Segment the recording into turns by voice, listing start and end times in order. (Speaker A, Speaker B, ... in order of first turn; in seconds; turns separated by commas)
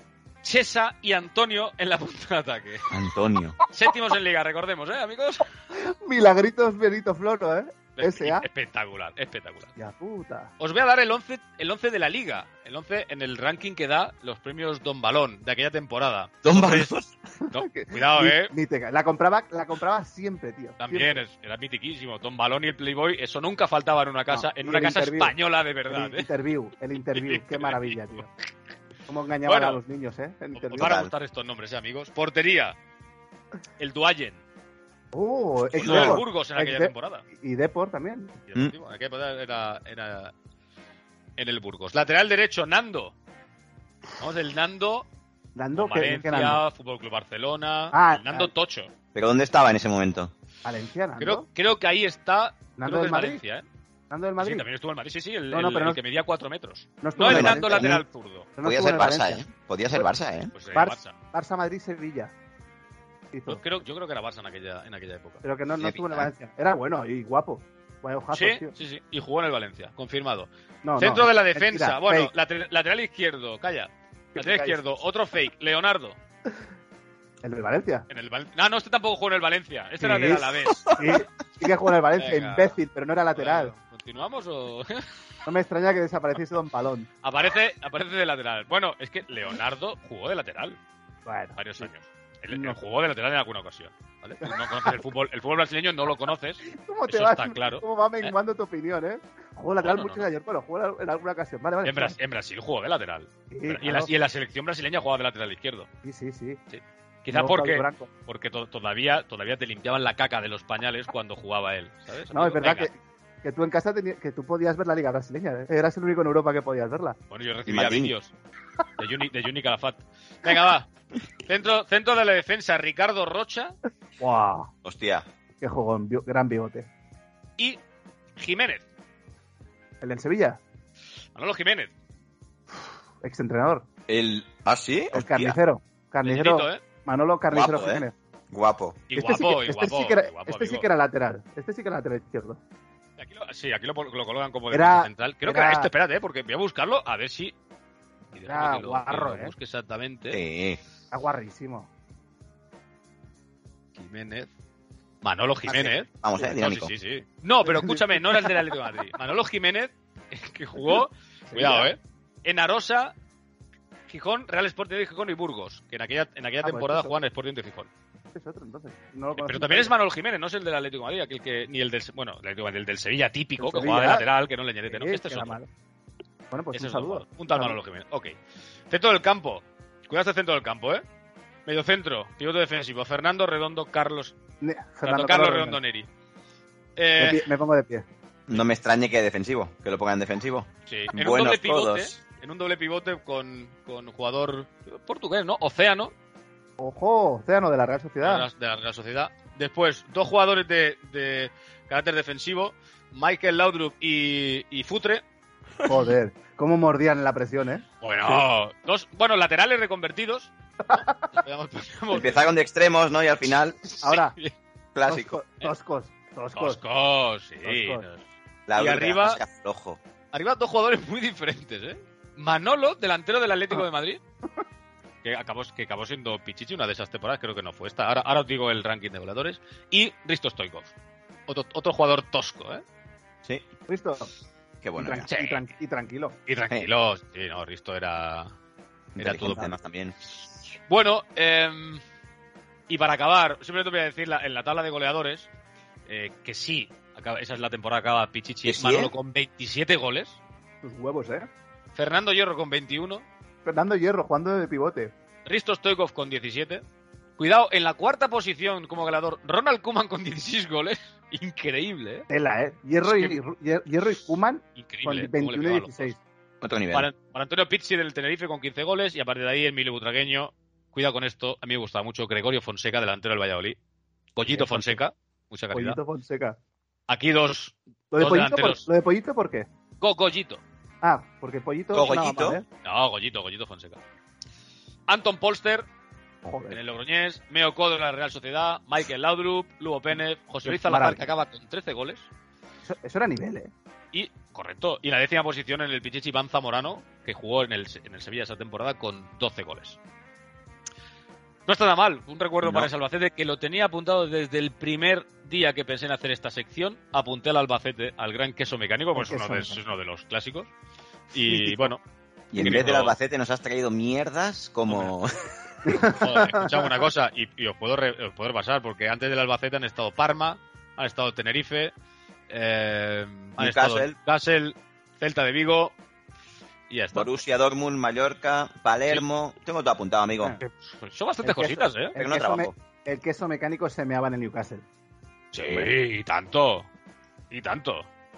Speaker A: 0.4-2.9, Speaker B: 2.9-3.6, Speaker A: 3.7-5.5, Speaker C: 5.7-8.4, Speaker A: 8.0-9.7, Speaker C: 9.8-10.5, Speaker A: 10.6-16.9, Speaker B: 16.4-17.1, Speaker C: 17.4-21.2, Speaker A: 17.5-18.5, Speaker A: 20.8-26.3, Speaker C: 24.3-25.3, Speaker C: 25.9-28.3, Speaker A: 27.1-28.2, Speaker C: 29.1-30.9, Speaker A: 29.5-29.8, Speaker A: 30.5-32.8, Speaker B: 30.8-31.1, Speaker A: 33.8-34.4, Speaker C: 35.1-38.3, Speaker B: 35.7-36.2, Speaker A: 35.8-37.2, Speaker A: 38.5-40.3, Speaker A: 41.4-43.1, Speaker A: 44.2-45.1, Speaker C: 45.5-46.6, Speaker A: 45.7-48.9, Speaker C: 47.9-48.5, Speaker B: 49.1-50.3, Speaker C: 50.6-51.4, Speaker A: 51.2-53.6, Speaker C: 52.8-53.4, Speaker C: 54.1-54.6, Speaker A: 54.4-58.5, Speaker C: 55.5-56.0, Speaker C: 57.0-58.0, Speaker B: 57.2-58.0, Speaker C: 58.6-59.5, Speaker B: 58.6-60.5, Speaker A: 60.5-61.1, Speaker C: 60.7-62.3, Speaker C: 63.3-63.6, Speaker A: 63.5-65.4, Speaker C: 65.4-68.7, Speaker B: 65.8-66.3, Speaker A: 68.3-76.2, Speaker C: 70.8-72.3, Speaker C: 74.3-74.8, Speaker C: 77.4-78.1, Speaker A: 78.1-81.0, Speaker C: 80.0-83.7, Speaker B: 80.7-81.1, Speaker A: 82.2-82.7, Speaker A: 83.3-85.1, Speaker C: 85.5-87.1, Speaker A: 87.2-90.8, Speaker C: 91.2-91.9, Speaker A: 91.6-98.3, Speaker C: 92.5-92.8, Speaker C: 94.4-95.0, Speaker C: 96.6-102.2, Speaker A: 99.8-100.3, Speaker A: 101.8-105.9, Speaker C: 103.5-104.1, Speaker C: 106.0-106.6, Speaker A: 106.7-112.9, Speaker C: 107.3-108.1, Speaker C: 112.3-117.2, Speaker A: 117.3-118.3, Speaker B: 117.7-118.1, Speaker A: 119.0-120.9, Speaker A: 121.4-123.7, Speaker C: 124.2-124.7, Speaker B: 124.8-125.2, Speaker C: 125.6-126.9, Speaker A: 128.4-128.8, Speaker C: 130.0-130.6, Speaker A: 131.3-131.9, Speaker C: 133.2-133.8, Speaker B: 134.1-135.6, Speaker C: 135.1-138.1, Speaker A: 136.2-136.8, Speaker B: 137.5-139.0, Speaker A: 139.1-140.9, Speaker C: 139.1-142.6, Speaker A: 143.2-147.5, Speaker C: 144.7-145.9, Speaker A: 148.3-150.4, Speaker C: 148.4-149.5, Speaker B: 150.3-150.8, Speaker C: 151.1-151.9, Speaker A: 153.9-154.5, Speaker A: 155.2-163.1, Speaker C: 155.7-156.5, Speaker B: 156.2-156.9, Speaker C: 157.6-158.7, Speaker C: 161.5-161.9, Speaker A: 164.1-167.9, Speaker C: 166.6-167.2, Speaker C: 168.3-169.9, Speaker A: 169.3-175.6, Speaker C: 173.6-174.2, Speaker C: 174.9-175.7, Speaker C: 176.5-177.8, Speaker A: 176.7-178.3, Speaker A: 178.9-181.0, Speaker A: 181.7-184.3, Speaker C: 184.6-185.8, Speaker A: 185.0-186.1, Speaker A: 187.0-187.5, Speaker C: 187.2-188.1, Speaker B: 188.5-192.1, Speaker A: 190.8-196.1, Speaker C: 196.8-198.5, Speaker A: 198.2-205.2, Speaker C: 205.8-208.4, Speaker A: 208.0-212.5, Speaker C: 210.8-211.2, Speaker B: 212.1-213.8, Speaker A: 213.8-214.5, Speaker C: 214.0-214.3, Speaker B: 214.9-215.4, Speaker C: 215.0-216.8, Speaker A: 216.6-218.2, Speaker C: 217.6-218.0, Speaker B: 218.7-220.0, Speaker A: 218.8-219.4, Speaker A: 220.3-224.2, Speaker A: 225.2-230.9, Speaker A: 231.5-232.8, Speaker C: 233.9-234.3, Speaker B: 234.8-235.3, Speaker C: 235.0-236.4, Speaker A: 235.3-235.6, Speaker A: 236.5-238.5, Speaker B: 239.2-240.2, Speaker A: 239.2-239.7, Speaker A: 240.9-242.0, Speaker A: 242.9-245.5, Speaker A: 246.1-250.4, Speaker B: 248.6-249.1, Speaker C: 250.8-251.5, Speaker A: 251.9-253.2, Speaker C: 253.6-255.1, Speaker A: 255.4-256.8, Speaker A: 257.4-262.2, Speaker C: 262.3-266.2, Speaker A: 263.0-263.4, Speaker A: 264.8-266.1, Speaker B: 266.6-267.1, Speaker A: 266.9-273.8, Speaker A: 274.4-276.0, Speaker C: 274.5-275.0, Speaker C: 275.7-276.6, Speaker A: 277.1-278.9, Speaker C: 278.1-279.7, Speaker A: 280.0-280.6, Speaker C: 281.0-282.6, Speaker B: 281.9-282.6, Speaker A: 282.8-284.0, Speaker A: 285.1-285.9, Speaker C: 286.4-286.8, Speaker A: 286.7-292.3, Speaker C: 290.6-291.2, Speaker C: 292.8-293.7, Speaker A: 294.1-300.0, Speaker A: 301.7-310.7, Speaker B: 302.6-302.9, Speaker C: 309.1-309.8, Speaker A: 311.3-312.0, Speaker C: 311.4-311.9, Speaker B: 312.5-315.5, Speaker A: 312.5-313.1, Speaker C: 315.9-316.8, Speaker A: 316.0-321.9, Speaker A: 322.5-325.9, Speaker B: 323.6-324.1, Speaker A: 326.9-327.3, Speaker B: 327.1-330.6, Speaker A: 330.6-332.1, Speaker C: 331.4-334.8, Speaker B: 332.2-332.7, Speaker A: 335.5-336.9, Speaker A: 337.5-338.1